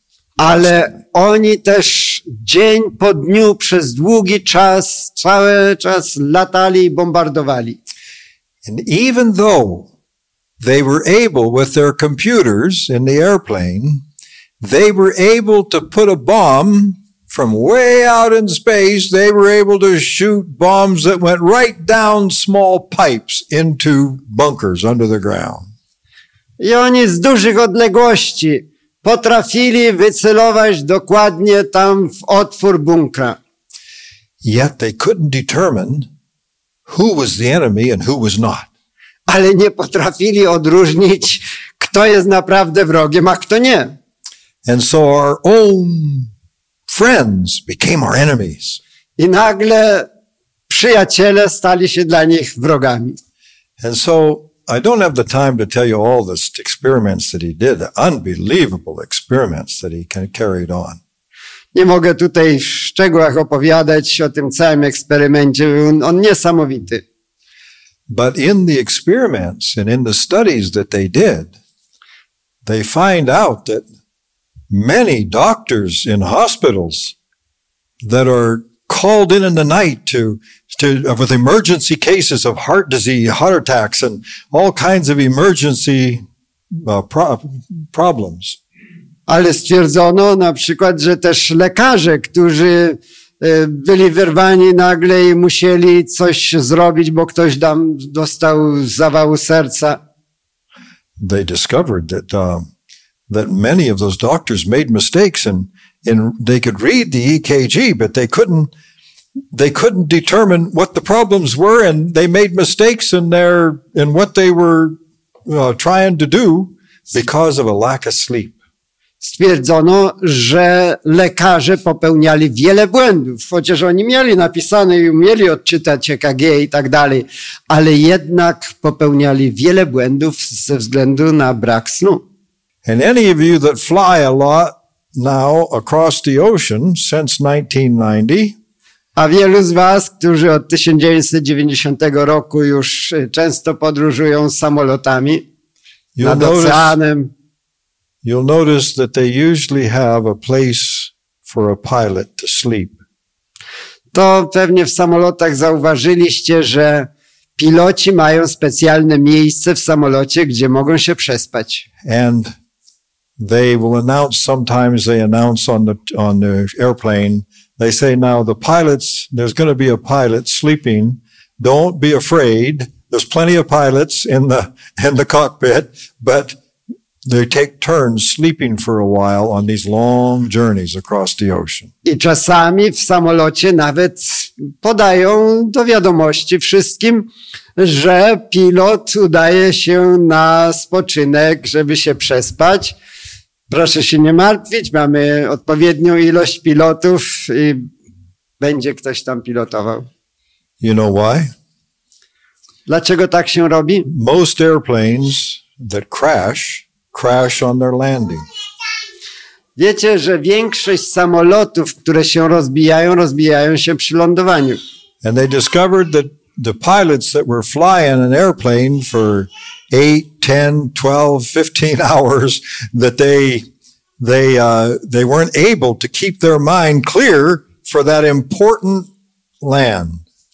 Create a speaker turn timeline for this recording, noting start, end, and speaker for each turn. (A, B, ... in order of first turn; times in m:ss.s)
0:00.4-0:07.8 A
0:00.4-0:00.9 B
0:08.6-0:09.9 B
0:10.6-0:14.0 B
0:14.6-0:25.7 B
0:26.6-0:33.4 A
0:34.4-0:36.1 B
0:36.9-0:38.7 B
0:39.3-0:44.0 A
0:44.6-0:46.3 B
0:46.9-0:48.8 B
0:49.2-0:50.1 A
0:50.7-0:53.2 A
0:53.8-1:01.0 B
1:01.7-1:07.0 A
1:08.1-1:11.5 B
1:12.6-1:13.8 B
1:14.7-1:17.1 B
1:18.0-1:28.6 B
1:29.3-1:40.0 A
1:41.2-1:42.7 B
1:43.3-1:48.7 B
1:49.5-1:54.9 B
1:55.4-1:58.6 B
1:59.2-2:12.2 A
2:12.8-2:18.6 B
2:19.2-2:25.4 A
2:26.2-2:27.0 B
2:26.2-2:27.3 A
2:28.2-2:33.0 B
2:34.1-2:41.8 A
2:42.0-2:42.5 B
2:43.4-2:56.6 B
2:57.2-3:01.9 B
3:02.0-3:12.9 A
3:13.7-3:17.8 A
3:18.6-3:20.1 A
3:20.8-3:21.5 B
3:22.9-3:24.1 A
3:24.1-3:28.4 B
3:29.8-3:34.8 A
3:35.2-3:43.6 B
3:44.2-3:49.1 B
3:49.6-3:50.2 B